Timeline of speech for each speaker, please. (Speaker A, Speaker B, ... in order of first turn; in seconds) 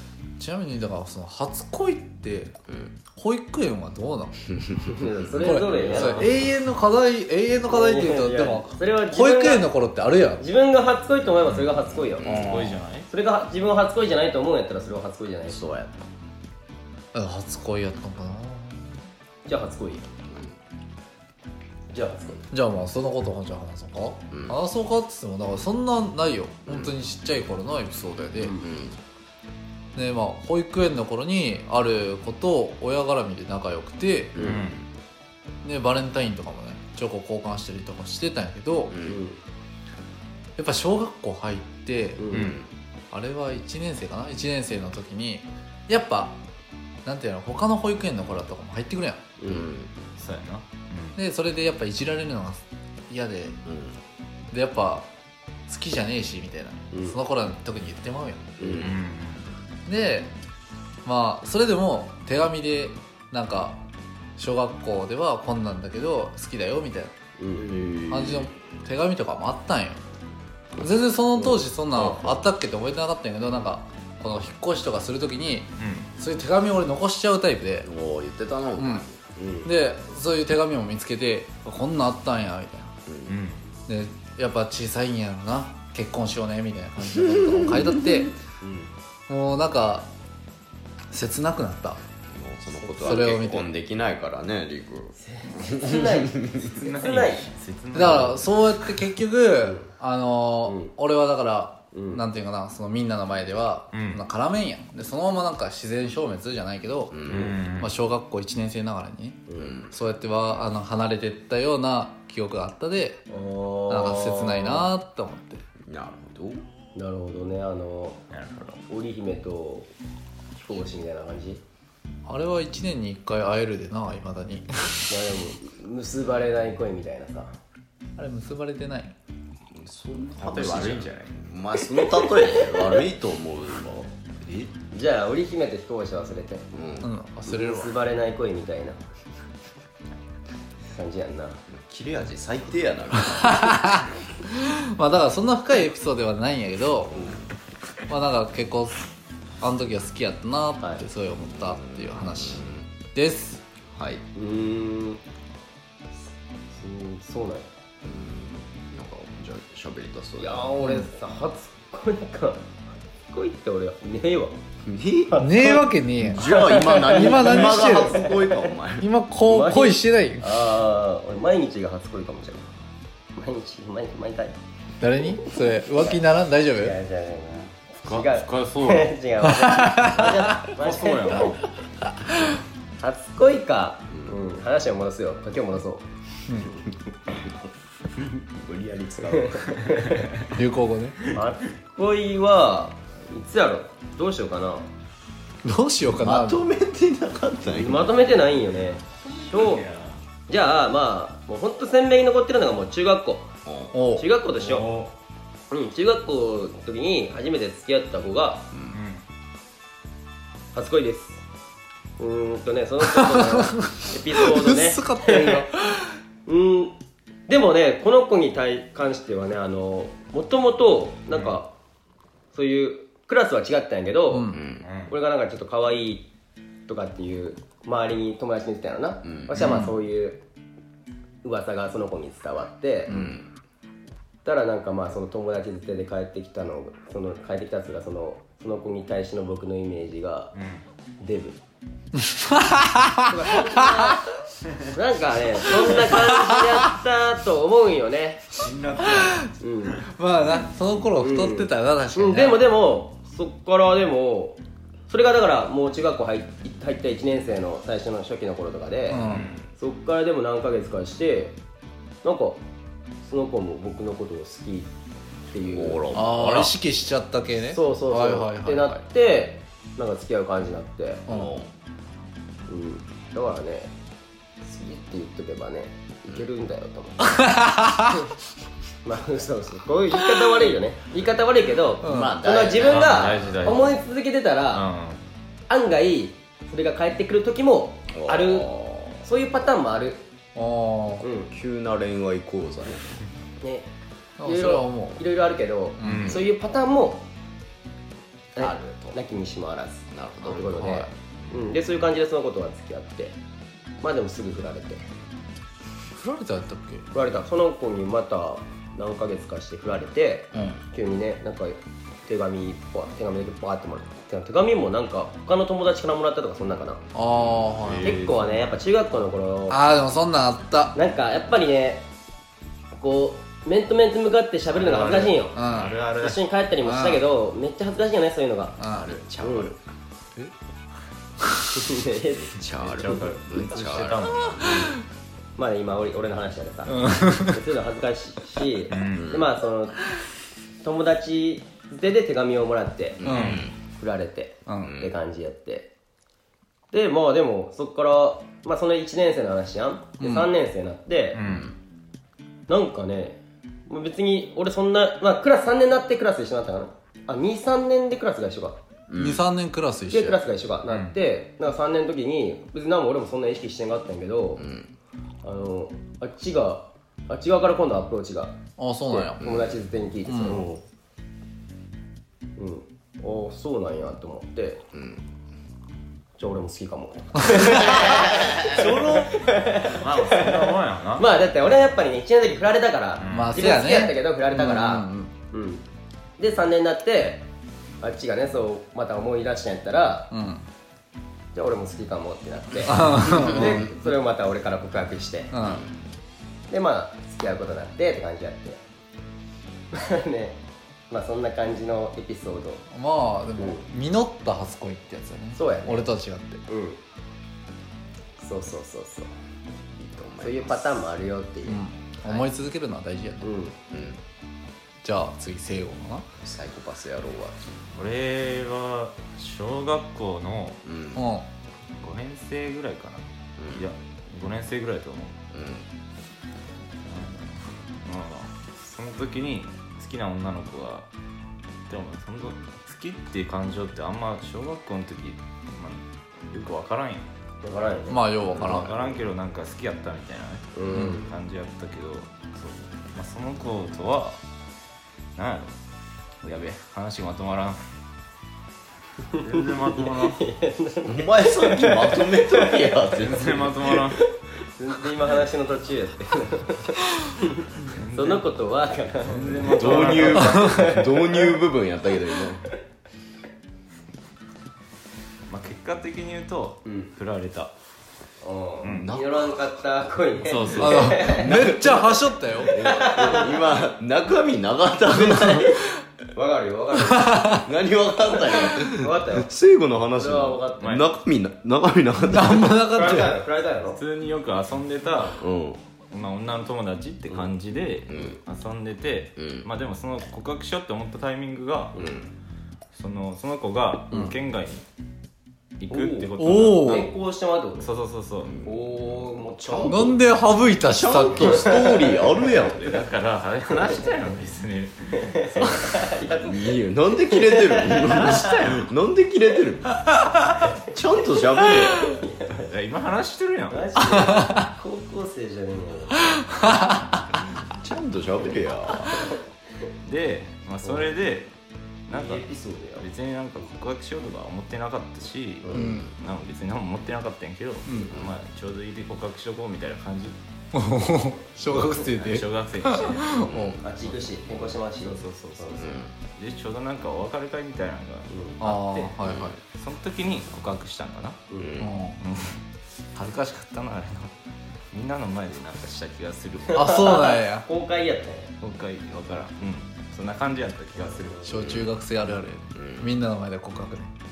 Speaker A: 0.4-2.5, 3.1-4.5, 5.4-10.4, 17.1-18.9, 22.5-28.6, 29.9-34.5, 35.6-38.9, 40.6-42.3, 43.1-46.4, 47.0-49.3, 51.1-53.6, 54.5-55.0, 55.7-58.5, 59.9-60.3, 61.0-63.8, 64.4-67.1, 68.1-70.0, 70.8-77.9, 78.8-79.0, 79.6-82.9, 83.9-88.3, 89.3-90.1, 91.1-92.0, 93.0-93.7, 97.9-107.2, 107.8-113.2, 113.9-115.6, 122.3-125.2, 128.2-129.1, 137.0-137.9, 143.4-143.9, 144.5-147.3, 148.1-149.0, 149.6-153.6, 160.8-161.1, 165.4-168.2, 169.0-170.5, 175.0-176.9, 179.4-180.5, 190.5-191.2, 195.6-196.6, 203.9-204.3, 213.0-216.1, 224.3-224.6, 229.6-229.9, 233.1-233.3, 242.3-244.1, 245.8-246.6, 249.0-249.5, 250.1-252.6, 259.1-259.5, 266.1-269.0, 277.3-278.2, 282.0-282.4, 290.6-291.3, 294.4-295.2, 296.0-296.5, 300.6-301.1, 306.1-307.1, 317.1-318.2, 319.7-320.9, 325.5-326.0, 326.8-327.2, 328.8-329.1, 334.5-334.9, 336.9-337.6, 343.2-343.6, 344.7-344.9, 350.2-350.5, 359.1-360.4, 368.8-369.4, 370.3-370.6, 378.8-379.3, 383.3-385.3, 390.3-390.7, 392.9-393.8, 395.5-395.8, 402.9-406.6, 411.6-413.5, 415.0-416.3, 421.1-421.5, 438.1-438.9, 440.9-441.2, 470.8-472.8, 477.1-477.6, 482.3-483.4, 496.4-497.1, 499.9-501.7, 514.1-514.7, 525.7-526.1, 527.9-528.1, 530.7-533.8, 538.6-539.6, 541.8-542.2, 546.7-547.6, 551.4-554.1
Speaker B: 2.7-2.9, 5.4-6.2, 12.2-12.8, 15.5-16.1, 20.3-20.5, 24.3-24.6, 26.7-26.9, 28.5-29.0, 34.3-34.7, 38.9-39.2, 42.3-42.7, 49.5-49.9, 53.6-54.0, 58.6-58.9, 67.5-68.5, 77.8-79.1, 83.1-83.3, 92.3-96.7, 107.1-107.6, 109.6-109.9, 115.8-116.7, 129.7-134.7, 136.7-137.1, 141.7-144.0, 147.1-147.5, 151.4-152.9, 153.9-154.2, 158.0-160.7, 164.8-165.4, 166.2-169.1, 184.1-184.3, 188.3-189.7, 196.2-198.1, 203.6-203.9, 208.7-209.0, 224.5-224.9, 229.2-229.5, 233.1-233.5, 265.6-266.7, 271.3-271.7, 282.0-283.4, 288.1-289.2, 291.5-293.2, 298.6-299.2, 300.1-300.6, 310.5-310.8, 328.9-329.9, 332.3-334.8, 339.1-339.5, 343.2-343.7, 344.8-345.1, 351.4-351.7, 359.1-359.4, 364.6-364.9, 369.4-369.8, 370.5-370.8, 374.9-375.2, 377.7-379.2, 395.6-395.9, 410.0-411.1, 413.9-414.2, 416.4-417.7, 420.8-421.3, 423.6-423.9, 425.5-425.9, 438.4-439.2, 451.0-454.1, 459.6-462.7, 468.9-469.9, 471.2-475.8, 477.4-482.9, 485.4-485.8, 488.1-488.4, 489.4-489.7, 492.0-492.3, 498.4-498.9, 499.6-500.2, 500.9-502.9, 506.3-510.1, 510.9-512.1, 517.7-519.3, 525.7-526.1, 528.1-528.4, 533.4-533.8, 535.8-536.1, 539.2-539.5, 541.6-541.9, 551.6-551.9, 552.8-553.1
Speaker C: 4.9-6.4, 7.7-9.7, 10.4-15.6, 19.4-20.1, 21.9-22.4, 39.0-39.4, 42.2-42.5, 49.4-49.7, 56.9-57.2, 58.6-58.9, 67.4-67.8, 71.4-72.4, 79.4-79.7, 88.6-88.9, 92.8-93.4, 95.2-97.5, 100.7-100.9, 101.9-102.2, 109.5-109.8, 113.3-114.9, 116.9-118.2, 118.9-119.9, 120.5-121.6, 125.1-127.5, 132.0-133.0, 134.9-136.7, 137.4-139.0, 140.8-141.6, 154.3-155.2, 156.7-157.7, 160.4-162.7, 163.3-164.6, 165.3-165.8, 166.4-168.7, 169.4-172.7, 173.3-174.6, 175.3-176.2, 176.7-181.6, 183.0-186.1, 189.3-190.2, 191.3-194.9, 197.7-199.8, 200.5-203.5, 204.1-204.9, 205.7-208.7, 210.7-211.4, 212.2-215.7, 216.4-216.9, 217.5-221.7, 222.5-226.3, 226.9-230.4, 231.4-233.2, 234.4-240.5, 241.2-241.6, 243.3-244.2, 244.9-248.4, 249.6-250.1, 251.2-261.6, 262.2-262.6, 263.2-264.9, 265.5-266.4, 267.7-271.2, 272.7-273.9, 274.6-277.5, 279.0-284.8, 285.7-290.2, 291.2-291.5, 293.6-293.9, 294.4-297.2, 298.6-303.4, 304.0-305.0, 307.1-317.0, 318.0-319.8, 320.9-322.1, 322.9-325.6, 326.1-328.8, 329.4-329.7, 331.7-332.6, 335.6-340.0, 340.8-345.9, 346.9-351.4, 352.7-358.8, 360.1-364.6, 365.4-370.8, 372.6-374.8, 376.4-385.8, 386.4-387.5, 388.0-390.3, 391.5-395.5, 396.7-398.8, 399.9-400.6, 401.1-402.8, 403.6-403.8, 405.5-406.1, 406.7-407.0, 408.4-409.3, 410.4-412.5, 413.4-413.8, 437.6-438.2, 440.7-441.3, 449.5-453.4, 454.2-461.5, 466.8-467.1, 468.4-472.0, 472.5-473.7, 475.2-475.8, 476.3-477.6, 478.3-479.5, 480.1-481.0, 482.9-484.0, 495.9-497.9, 498.6-500.2, 501.3-503.0, 503.7-504.2, 505.2-508.3, 510.6-512.7, 513.7-516.5, 520.8-521.2, 522.1-523.1, 533.8-536.0, 538.3-538.6, 541.5-541.8, 546.7-548.5, 551.0-551.3
Speaker D: 11.4-11.7, 12.3-13.1, 34.4-34.8, 42.3-42.6, 50.2-51.2, 58.8-59.5, 75.8-76.1, 83.2-83.6, 96.6-98.5, 103.9-104.2, 107.3-107.9, 118.3-118.8, 130.4-131.4, 178.0-179.1, 180.8-181.6, 199.2-200.2, 204.5-205.1, 208.9-209.2, 221.3-221.6, 224.8-225.1, 240.5-240.8, 248.6-249.4, 259.2-259.7, 282.8-284.0, 284.7-285.2, 296.0-296.5, 317.8-318.8, 324.7-326.4, 332.7-334.9, 338.9-339.3, 343.2-343.6, 351.3-351.7, 360.9-361.1, 379.8-381.2, 383.2-383.6, 417.9-420.8, 422.0-425.4, 427.0-431.1, 431.9-437.3, 438.6-444.4, 445.4-445.7, 446.4-447.9, 449.4-450.4, 453.2-454.2, 457.8-458.4, 459.2-460.8, 465.5-467.7, 468.8-469.1, 470.4-471.3, 480.8-481.1, 483.9-485.4, 486.1-492.0, 492.9-494.8, 495.8-497.1, 497.8-498.6, 502.6-504.9, 508.1-508.9, 512.6-513.9, 520.0-521.5, 522.1-530.4, 531.6-533.5, 535.0-541.4, 542.2-542.6, 543.1-544.3, 544.9-546.9, 548.6-551.5